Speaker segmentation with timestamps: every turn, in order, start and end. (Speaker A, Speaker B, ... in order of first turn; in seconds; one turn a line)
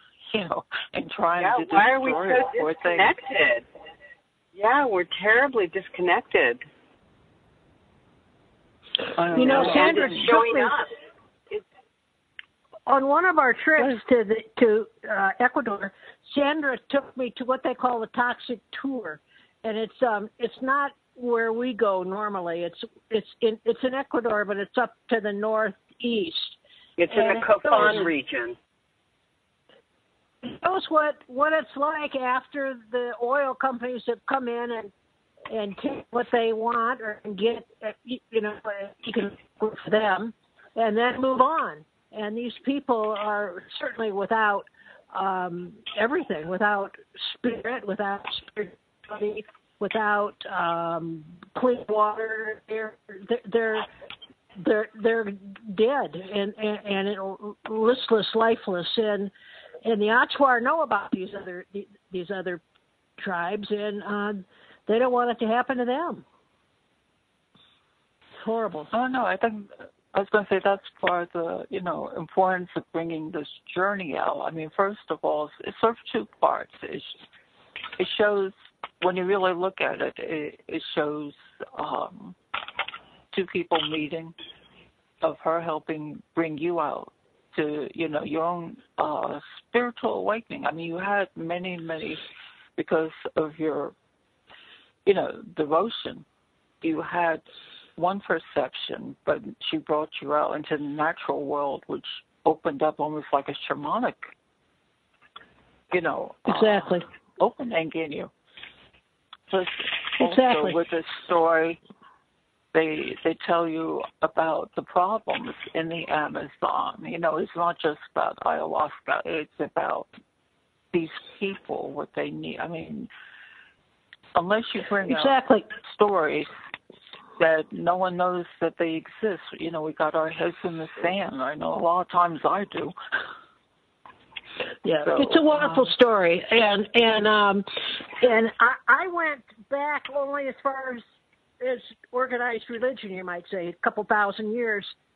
Speaker A: 0.3-3.1
Speaker B: 1.4-3.6
Speaker B: 4.5-6.7
Speaker A: 9.2-10.3
Speaker C: 9.3-10.7
Speaker B: 9.4-10.9
Speaker C: 12.9-26.6
Speaker B: 27.0-28.6
Speaker C: 27.1-28.1
Speaker C: 30.4-34.9
Speaker C: 35.5-53.9
Speaker C: 54.6-59.3
Speaker C: 59.8-62.6
Speaker C: 63.2-66.2
Speaker C: 68.4-68.9
Speaker A: 68.9-77.2
Speaker A: 78.0-82.4
Speaker A: 83.3-84.3
Speaker A: 85.2-92.2
Speaker A: 92.8-93.9
Speaker A: 95.1-96.2
Speaker A: 96.8-97.4
Speaker A: 98.0-104.3
Speaker A: 105.9-108.3
Speaker C: 106.5-107.1
Speaker A: 109.5-111.8
Speaker C: 110.2-110.8
Speaker A: 112.7-120.1
Speaker A: 120.9-123.1
Speaker A: 124.3-126.5
Speaker C: 125.1-125.7
Speaker A: 127.4-132.9
Speaker C: 134.8-141.0
Speaker A: 135.0-135.9
Speaker C: 141.6-144.9